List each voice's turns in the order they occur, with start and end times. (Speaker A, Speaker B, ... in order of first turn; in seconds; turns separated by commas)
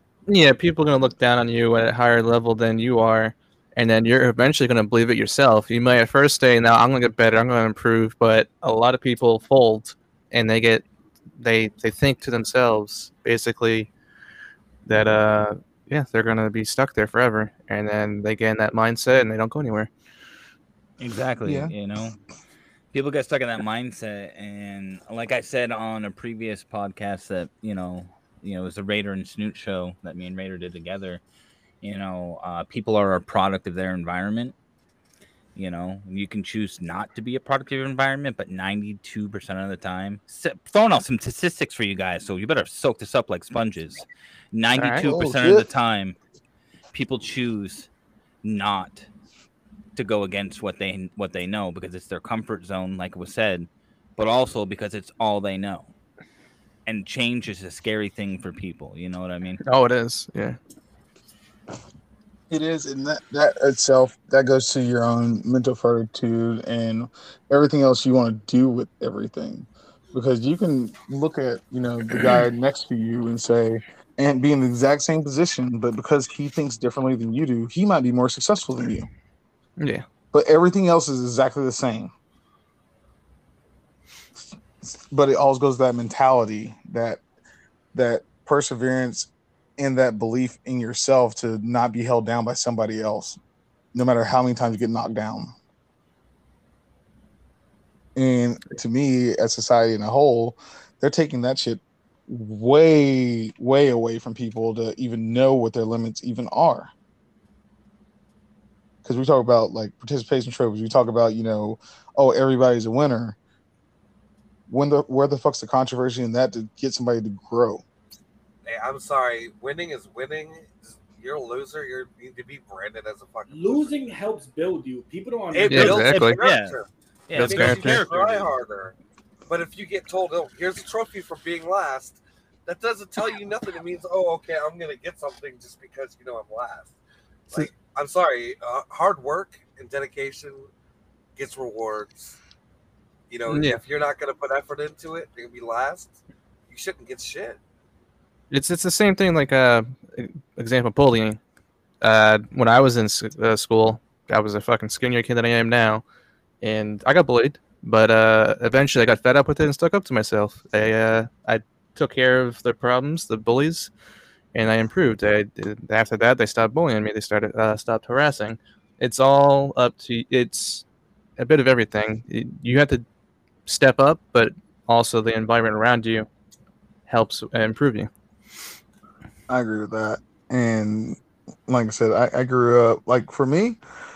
Speaker A: 0.3-10.8, Speaker A: 11.4-13.9, Speaker A: 14.8-19.9, Speaker B: 21.0-22.1, Speaker C: 21.4-21.7, Speaker B: 22.9-31.2, Speaker B: 31.8-34.5, Speaker B: 35.5-46.1, Speaker A: 44.8-45.0, Speaker C: 45.0-45.6, Speaker B: 46.9-47.9, Speaker B: 48.4-49.1, Speaker B: 49.9-55.9, Speaker B: 56.9-59.6, Speaker A: 59.6-60.6, Speaker C: 62.5-79.1, Speaker A: 79.8-80.0, Speaker C: 80.3-82.1, Speaker C: 84.8-87.2, Speaker C: 87.9-93.4, Speaker C: 93.9-95.5, Speaker C: 98.2-106.9, Speaker C: 109.0-113.4, Speaker C: 114.7-117.8, Speaker D: 118.7-124.0, Speaker E: 123.5-125.9, Speaker D: 125.5-128.9, Speaker A: 125.7-126.4, Speaker B: 125.7-126.8, Speaker B: 127.3-128.5, Speaker A: 127.3-128.0, Speaker D: 129.5-136.9, Speaker D: 137.5-140.7, Speaker D: 141.3-142.4, Speaker D: 143.3-146.1, Speaker A: 143.5-143.8, Speaker D: 146.7-147.6, Speaker A: 148.5-151.4, Speaker A: 152.0-156.0, Speaker A: 156.6-163.9, Speaker A: 164.5-170.8, Speaker A: 171.4-173.1, Speaker A: 173.7-176.3, Speaker A: 177.1-178.1, Speaker C: 179.5-183.8